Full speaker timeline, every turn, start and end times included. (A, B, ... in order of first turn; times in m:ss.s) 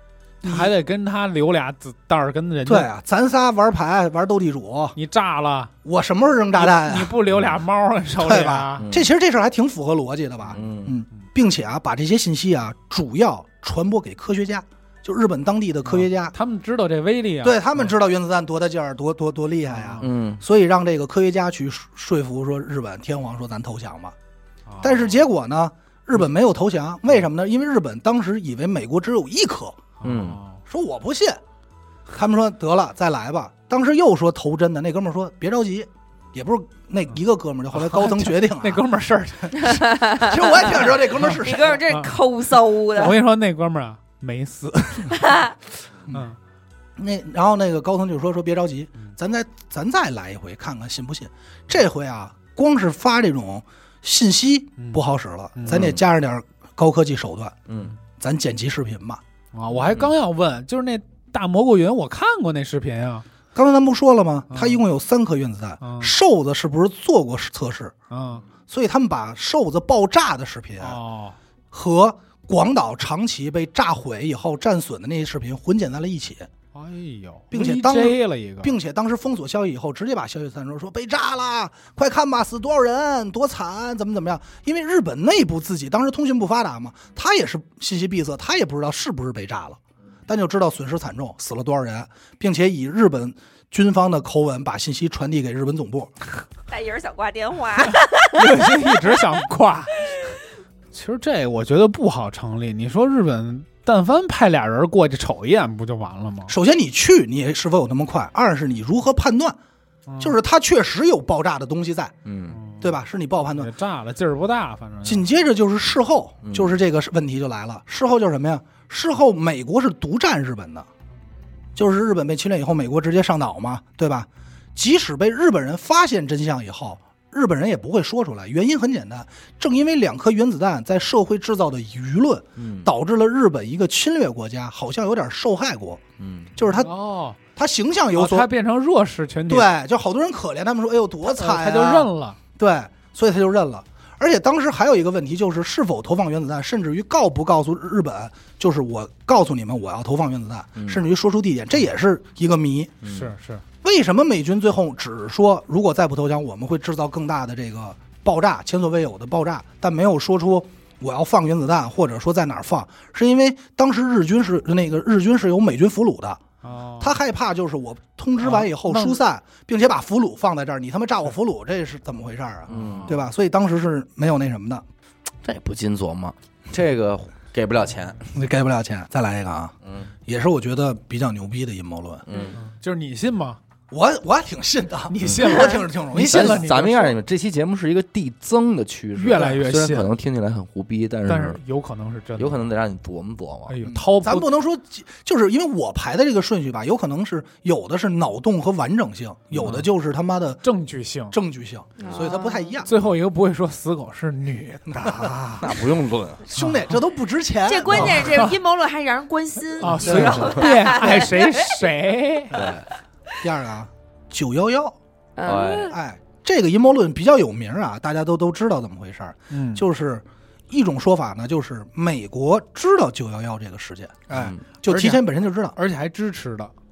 0:00.4-0:02.9 A
0:00.4-0:00.7 B
0:02.7-0:05.0 B
0:05.0-0:05.7 A
0:05.8-0:07.1 B
0:06.6-0:08.9 A
0:08.2-0:16.4 B
0:08.8-0:09.1 C
0:10.5-0:11.0 C
0:15.8-0:17.9 A
0:17.4-0:24.2 B
0:19.7-0:20.1 A
0:20.0-0:20.4 C
0:24.7-0:25.2 A
0:24.8-0:29.8 B
0:30.0-0:30.6 A
0:30.0-0:30.4 C
0:30.7-0:31.4 B
0:32.1-0:38.8 B
0:37.7-0:40.1 A
0:39.6-0:43.2 D
0:40.2-0:41.8 B
0:41.0-0:42.1 A
0:42.9-0:45.4 A
0:45.2-0:45.5 D
0:46.1-0:46.4 A
0:47.0-0:57.6 B
0:54.8-0:55.0 A
0:55.6-0:55.9 A
0:55.7-0:56.0 C
0:57.7-0:57.9 C
0:58.2-0:59.2 B
0:59.5-1:03.3 A
0:59.8-1:00.1 C
1:03.5-1:08.0 B
1:04.5-1:04.8 A
1:05.8-1:06.1 A
1:08.1-1:08.4 A
1:08.7-1:11.0 B
1:10.8-1:11.4 A
1:11.7-1:16.5 B
1:16.7-1:18.8 A
1:17.5-1:36.1 B
1:36.7-1:38.4 D
1:38.3-1:40.1 A
1:40.9-1:46.5 A
1:46.5-1:49.6 B
1:50.1-1:50.4 A
1:50.2-1:52.2 B
1:52.2-1:52.6 C
1:52.5-1:53.0 A
1:52.8-1:53.7 B
1:53.6-1:55.3 A
1:55.0-2:00.9 B
1:56.4-1:56.8 C
2:01.8-2:16.0 B
2:12.6-2:12.9 C
2:16.2-2:16.6 C
2:16.6-2:16.9 B
2:16.7-2:17.4 A
2:17.6-2:18.5 B
2:18.1-2:19.7 A
2:19.5-2:33.0 B
2:21.2-2:22.4 A
2:30.8-2:31.0 C
2:33.0-2:33.3 C
2:33.0-2:33.6 A
2:33.8-2:46.4 B
2:46.6-2:47.2 A
2:47.0-2:54.8 B
2:48.4-2:49.2 A
2:52.7-2:53.2 A
2:52.7-2:53.1 C
2:55.4-2:58.3 C
2:58.3-3:02.2 B
2:59.8-3:00.1 C
3:02.3-3:02.6 C
3:02.6-3:03.6 A
3:03.9-3:06.7 B
3:05.1-3:07.2 A
3:06.2-3:11.6 C
3:09.2-3:10.1 A
3:11.3-3:12.7 A
3:12.4-3:13.8 C
3:13.7-3:14.5 A
3:13.8-3:20.6 B
3:19.5-3:19.9 A
3:20.6-3:21.4 A
3:21.3-3:22.9 B
3:22.0-3:22.8 D
3:22.8-3:25.8 A
3:25.0-3:25.3 B
3:25.6-3:26.4 C
3:26.5-3:28.4 B
3:26.6-3:27.0 A
3:27.7-3:31.8 D
3:27.9-3:28.6 A
3:29.8-3:32.6 A
3:30.0-3:30.6 B
3:30.0-3:30.7 C
3:32.5-3:32.8 B
3:32.5-3:32.9 C
3:33.4-3:35.0 B
3:35.4-3:36.0 D
3:35.4-3:36.0 C
3:35.9-3:45.8 B
3:39.5-3:39.8 A
3:44.3-3:44.6 C
3:44.9-3:45.2 A
3:45.8-3:46.7 A